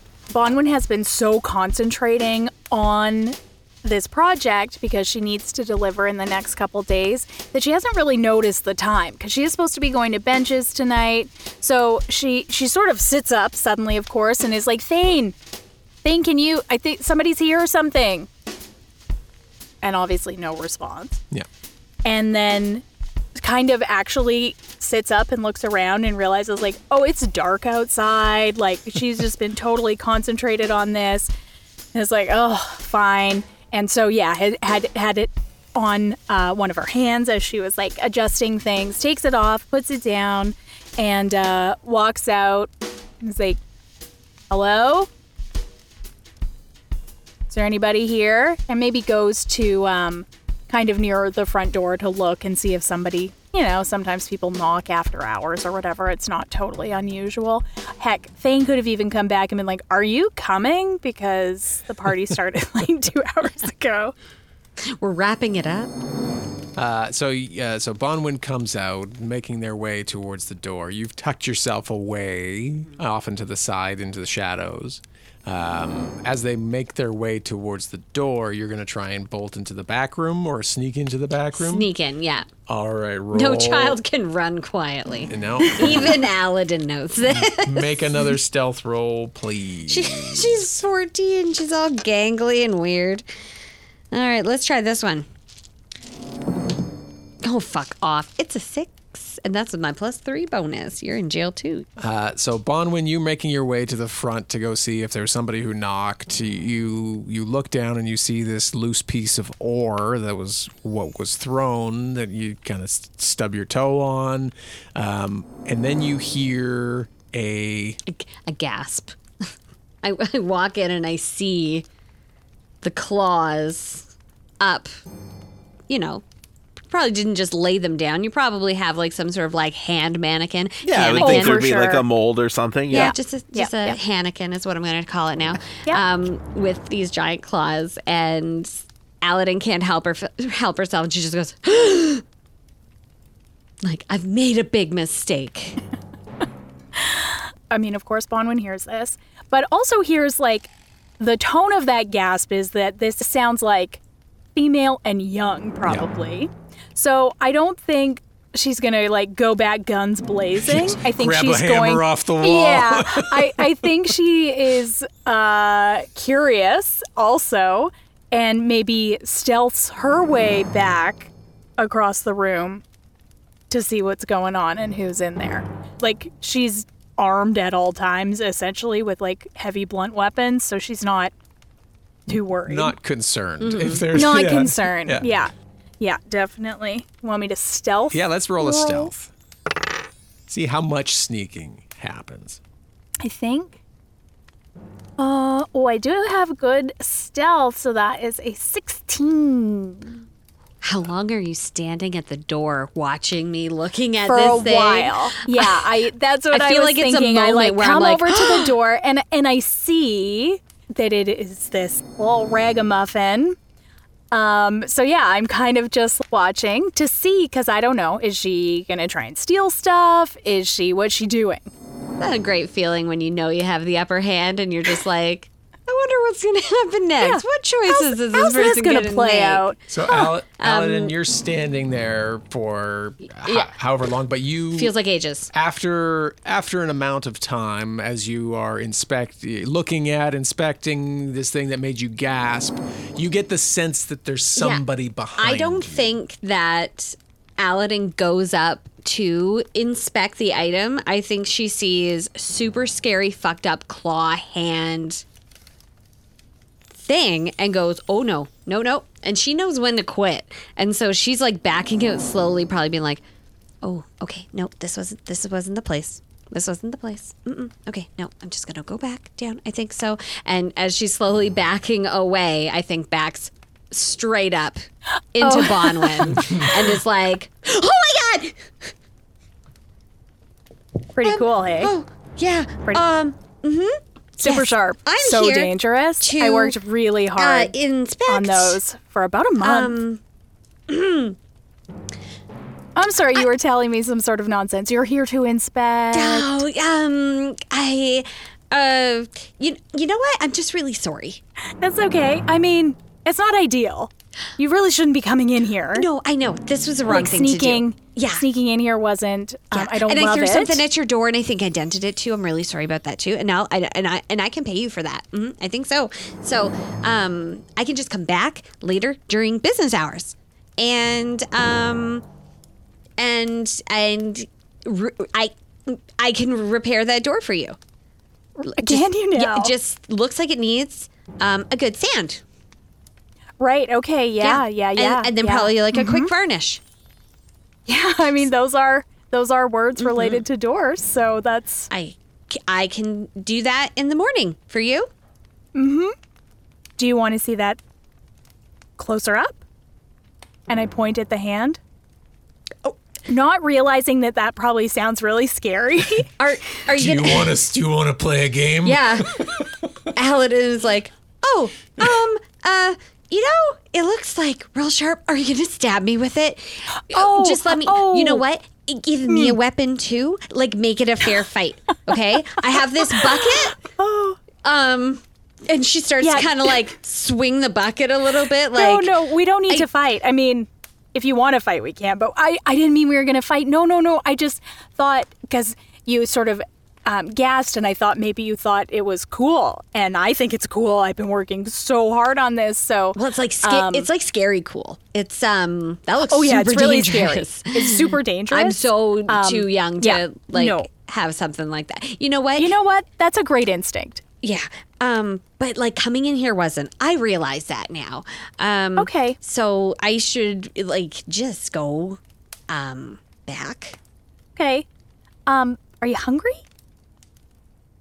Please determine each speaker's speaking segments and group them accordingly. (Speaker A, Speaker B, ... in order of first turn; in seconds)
Speaker A: 0.3-15.3, 16.0-18.3, 19.8-21.2, 22.0-22.8, 23.4-31.3, 31.9-42.7, 43.2-43.6, 44.5-45.1, 47.5-64.1, 131.2-132.1, 132.9-134.0, 147.0-154.0, 154.5-172.8, 173.7-181.3, 182.3-182.9, 184.1-189.1, 193.2-193.8, 195.2-200.2, 204.2-213.6, 214.3-221.7, 227.2-229.8, 275.4-276.6, 281.1-281.9, 284.4-287.7, 288.3-290.0, 292.9-296.5, 301.8-306.1, 307.1-310.8, 328.6-329.7, 333.6-336.3, 337.9-341.9, 345.7-346.1, 347.0-347.8, 349.0-349.6, 350.7-351.8, 353.3-356.3, 367.1-368.4, 369.3-369.6, 373.1-374.4, 376.2-376.8, 378.8-394.1, 396.3-400.9, 402.6-404.2, 409.0-409.4, 414.6-414.9, 415.5-416.6
Speaker B: 64.8-65.9, 81.5-82.5, 83.3-88.2, 89.9-93.2, 94.1-95.3, 97.4-101.9, 118.1-119.2, 120.0-121.9, 122.8-124.9, 125.9-126.2, 126.9-131.7, 132.9-142.2, 143.8-145.8, 183.6-184.1, 200.8-205.9, 206.5-208.7, 222.2-229.7, 230.6-231.2, 233.2-233.7, 234.7-235.5, 244.6-244.8, 245.4-255.2, 256.9-263.2, 263.8-274.8, 275.3-278.9, 281.2-286.8, 287.4-288.8, 289.6-290.2, 290.9-291.4, 296.1-301.4, 305.9-308.4, 309.7-322.2, 323.2-327.8, 328.6-332.4, 334.4-336.8, 340.0-340.4, 341.9-345.1, 356.4-357.5, 358.8-359.3, 360.1-373.8, 374.6-379.1, 393.1-402.7, 404.4-414.0
Speaker C: 66.8-81.9, 82.7-84.0, 85.3-86.2, 87.4-90.6, 102.0-118.0, 160.6-163.6, 182.3-185.2, 188.1-189.3, 190.5-192.6, 229.9-234.9, 235.5-246.2, 356.9-359.9
Speaker D: 130.8-133.1